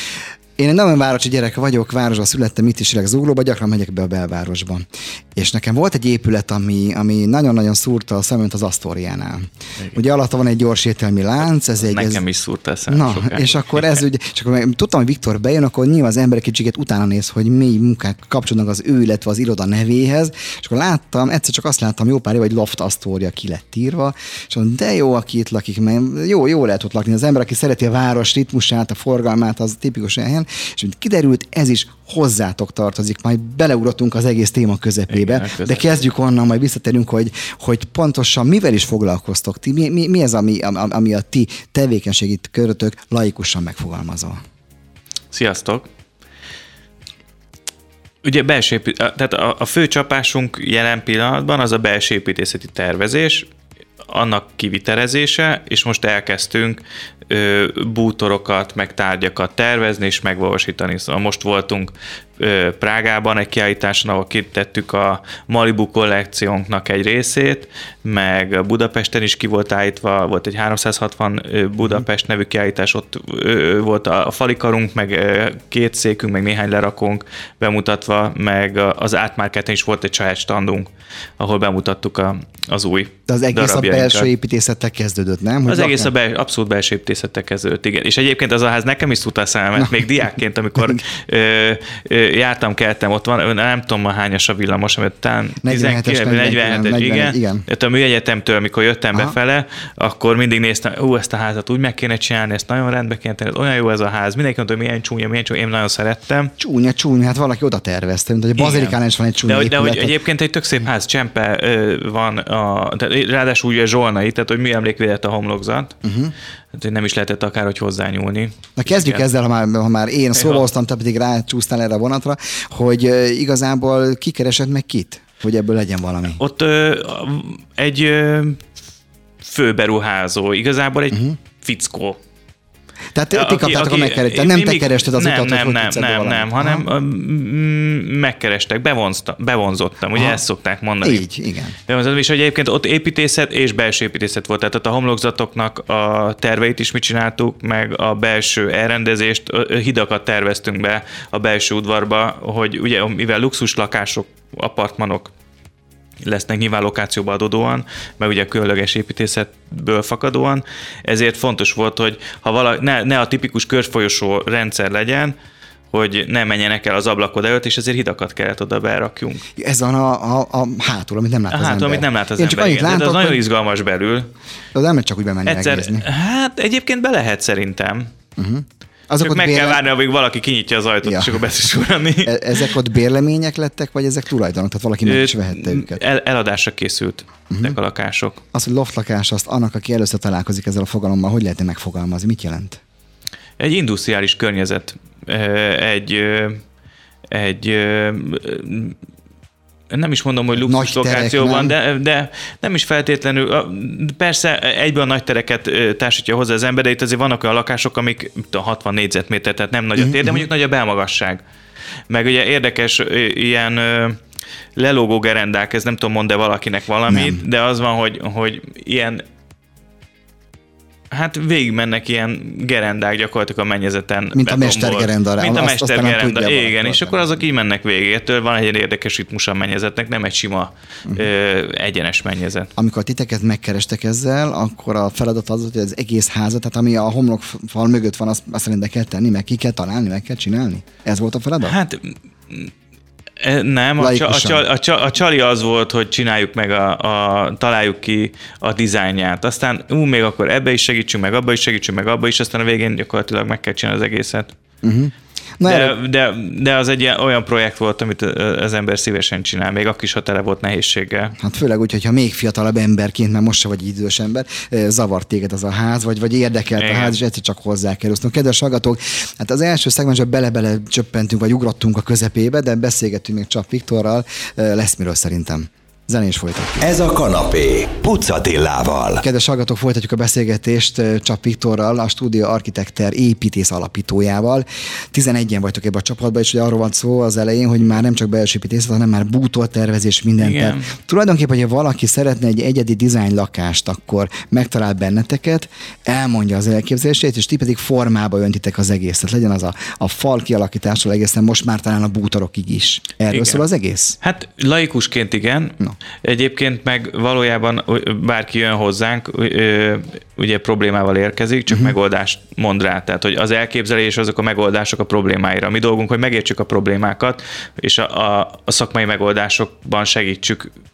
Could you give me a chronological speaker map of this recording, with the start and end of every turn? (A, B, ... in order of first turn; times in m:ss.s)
0:00.6-0:12.2 A
0:11.8-0:14.0 B
0:12.9-0:44.4 A
0:35.1-0:35.9 B
0:45.3-0:45.9 B
0:48.2-0:53.5 B
0:54.1-1:24.3 B
1:23.3-1:26.1 A
1:25.7-1:46.5 B
1:29.8-1:30.2 A
1:30.8-1:31.0 A
1:35.6-1:37.7 A
1:46.6-1:50.2 A
1:48.6-1:56.0 B
1:56.0-1:56.3 A
1:56.7-1:59.3 B
1:58.8-2:06.4 A
2:00.3-2:00.7 B
2:06.4-2:08.6 B
2:09.4-2:12.2 B
2:13.2-2:16.9 A
2:13.3-2:21.2 B
2:20.1-2:20.4 A
2:21.0-2:21.8 A
2:21.9-2:35.3 B
2:36.2-2:45.3 B
2:45.9-2:49.4 B
2:49.6-2:53.4 A
2:51.5-2:54.3 B
2:54.7-2:56.1 A
2:55.4-2:58.1 B
2:58.4-2:59.8 A
2:59.2-3:02.7 B
3:01.0-3:01.4 A
3:02.2-3:06.0 A
3:05.0-3:08.4 B
3:07.5-3:07.8 A
3:08.5-3:12.8 A
3:13.6-3:16.6 B
3:17.3-3:19.0 B
3:19.9-3:31.4 B
3:20.6-3:21.8 A
3:30.0-3:30.5 A
3:32.1-3:34.2 B
3:34.8-3:39.2 B
3:37.1-3:37.4 A
3:41.1-3:52.7 B
3:44.3-3:47.4 A
3:52.8-4:01.8 A
4:01.6-4:02.7 B
4:03.4-4:14.5 B
4:04.0-4:04.7 A
4:14.8-4:16.0 A
4:15.7-4:21.3 B
4:21.4-4:36.9 A
4:26.8-4:27.2 B
4:36.8-4:39.2 C
4:39.2-5:04.2 A
4:50.4-4:50.9 B
5:03.3-5:03.6 B
5:04.2-5:20.7 B
5:11.7-5:11.9 A